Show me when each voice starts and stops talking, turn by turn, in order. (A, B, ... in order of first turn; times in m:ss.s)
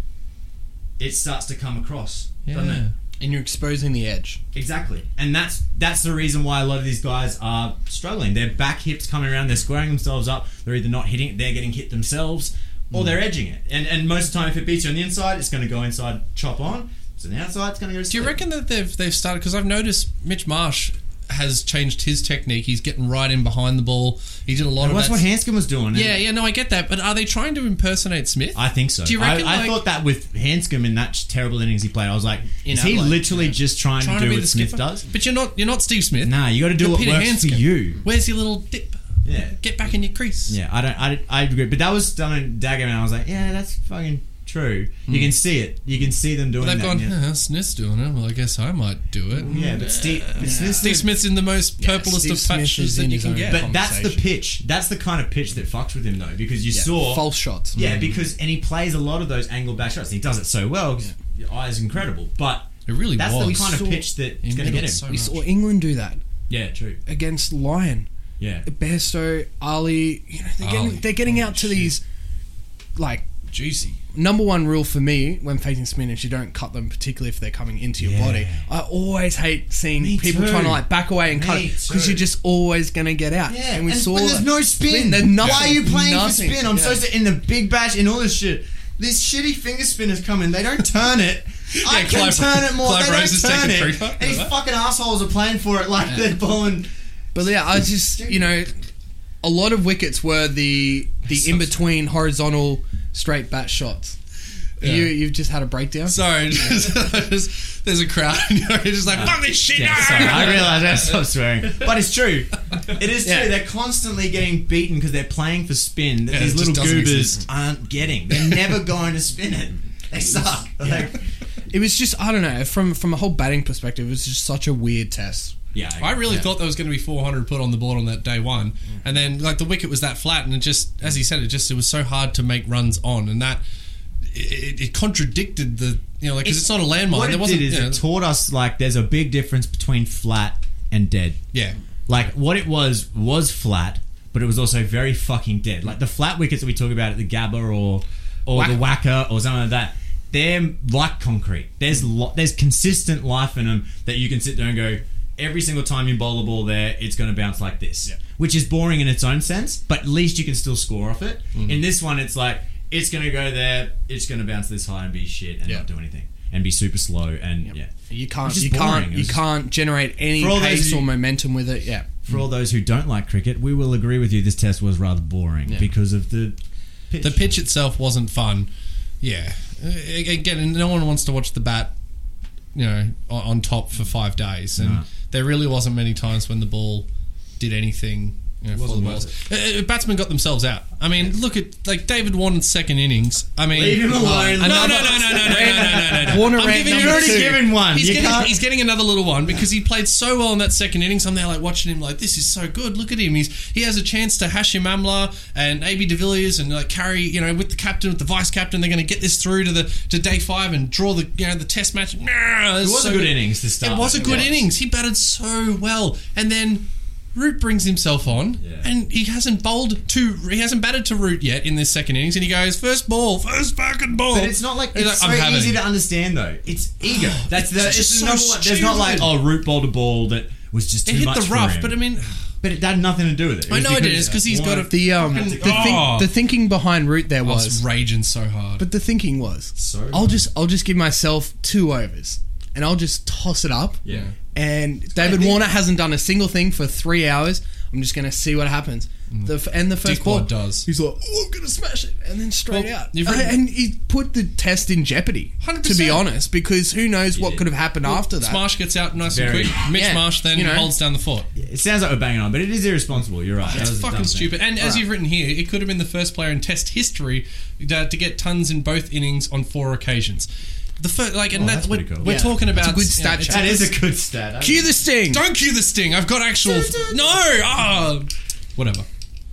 0:01.0-0:02.8 A
0:02.4-0:02.9 B
0:03.2-0:04.4 C
0:04.5-0:18.4 A
0:18.1-0:25.2 B
0:24.8-0:26.2 A
0:25.9-0:29.8 B
0:28.5-0:35.1 A
0:32.6-0:33.5 C
0:34.0-0:39.0 B
0:36.2-0:38.0 A
0:39.2-0:39.6 A
0:39.6-0:40.6 B
0:40.5-0:47.2 A
0:45.1-0:45.4 B
0:46.6-0:53.6 B
0:49.4-0:51.0 A
0:50.4-0:51.1 C
0:51.8-0:54.2 C
0:53.5-1:05.0 A
0:56.7-0:57.8 C
0:57.7-0:58.2 B
1:02.9-1:05.5 B
1:05.1-1:06.2 C
1:06.5-1:07.0 A
1:07.0-1:08.1 C
1:08.4-1:08.6 A
1:08.6-1:12.0 C
1:10.6-1:11.9 B
1:13.0-1:13.3 C
1:13.5-1:14.0 B
1:14.1-1:27.0 C
1:18.0-1:18.6 A
1:20.0-1:22.2 A
1:23.5-1:36.9 A
1:25.4-1:25.7 B
1:31.7-1:34.5 B
1:37.3-1:38.7 C
1:38.2-1:38.5 A
1:39.4-1:44.2 C
1:41.3-1:41.7 B
1:44.8-1:46.9 C
1:44.8-1:45.2 B
1:46.1-1:51.0 B
1:49.1-2:01.2 A
1:53.2-1:53.6 C
1:56.3-1:57.4 B
2:01.7-2:05.5 C
2:05.7-2:06.5 A
2:06.0-2:13.6 B
2:14.3-2:18.0 B
2:16.4-2:21.4 A
2:21.5-2:22.2 B
2:22.1-2:47.9 A
2:41.5-2:41.8 B
2:47.6-2:52.2 C
2:48.4-2:49.5 A
2:50.3-2:51.1 A
2:52.2-2:56.6 A
2:57.1-2:57.5 A
2:57.2-2:58.7 B
2:59.2-3:01.9 B
3:02.7-3:07.1 B
3:04.8-3:05.0 A
3:07.6-3:45.8 B
3:08.7-3:09.3 A
3:13.7-3:18.6 A
3:14.1-3:17.7 C
3:32.8-3:34.7 A
3:34.1-3:34.5 C
3:38.6-3:38.9 A
3:44.3-3:52.0 A
3:47.1-3:49.4 B
3:51.0-3:52.4 B
3:52.6-3:56.2 A
3:53.7-3:56.3 B
3:54.9-3:57.8 C
3:57.4-3:58.8 B
3:58.8-4:04.0 C
3:59.8-4:00.4 A
4:04.0-4:04.3 A
4:04.1-4:04.3 B
4:04.5-4:18.6 C
4:05.2-4:05.6 A
4:09.3-4:10.9 B
4:12.7-4:13.6 B
4:15.6-4:16.3 B
4:17.3-4:17.6 A
4:18.0-4:21.5 B
4:19.2-4:19.8 A
4:19.9-4:20.9 C
4:21.5-4:24.5 A
4:23.6-4:30.5 B
4:31.0-4:33.9 B
4:31.5-4:32.4 A
4:32.2-4:33.9 C
4:33.4-4:35.0 A
4:34.6-4:35.4 C
4:35.3-4:39.0 B
4:36.6-4:37.6 A